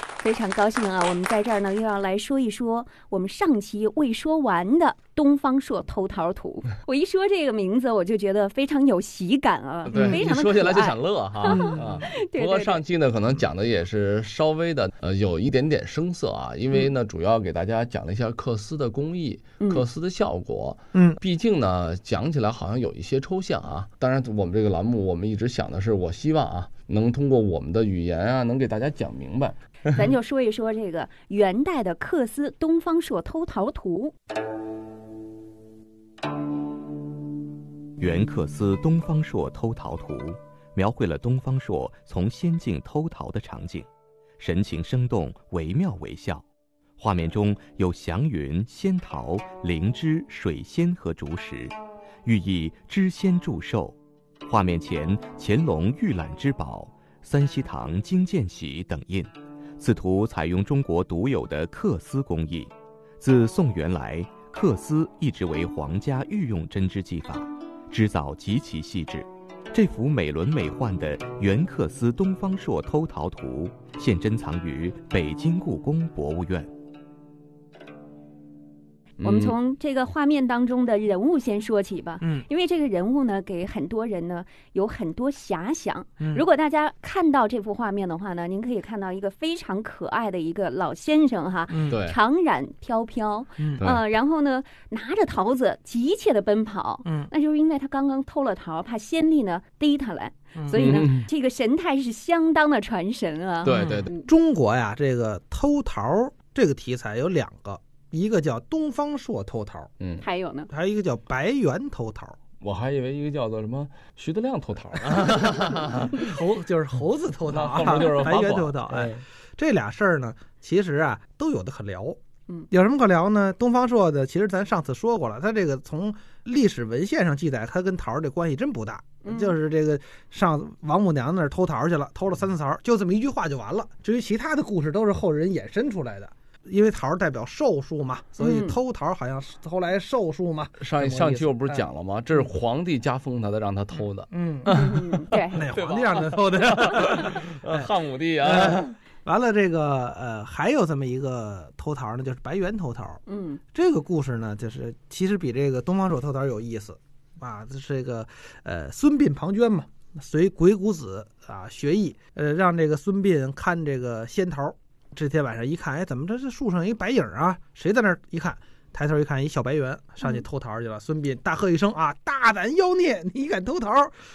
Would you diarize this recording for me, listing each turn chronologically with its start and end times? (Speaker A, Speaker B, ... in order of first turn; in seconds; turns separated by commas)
Speaker A: 0.2-12.8, Speaker B: 9.8-30.1, Speaker C: 20.9-21.2, Speaker A: 29.9-34.1, Speaker D: 38.0-43.9, Speaker D: 44.4-46.4, Speaker D: 47.0-76.7, Speaker B: 79.2-79.5, Speaker A: 79.2-104.3, Speaker C: 91.7-92.0, Speaker B: 91.9-92.2, Speaker C: 97.0-97.3, Speaker C: 100.5-100.9, Speaker B: 100.7-101.3, Speaker B: 103.6-104.1, Speaker C: 103.7-109.9, Speaker B: 110.0-110.2, Speaker A: 110.2-110.7, Speaker C: 110.7-112.3, Speaker B: 112.6-116.2, Speaker C: 116.2-122.2, Speaker B: 117.5-119.2, Speaker C: 122.7-141.8, Speaker A: 129.2-129.5, Speaker A: 138.4-138.8, Speaker B: 140.8-145.0, Speaker C: 144.3-147.9, Speaker A: 144.7-145.6, Speaker B: 145.6-148.9, Speaker C: 148.4-153.2, Speaker A: 153.3-153.6, Speaker C: 153.7-174.1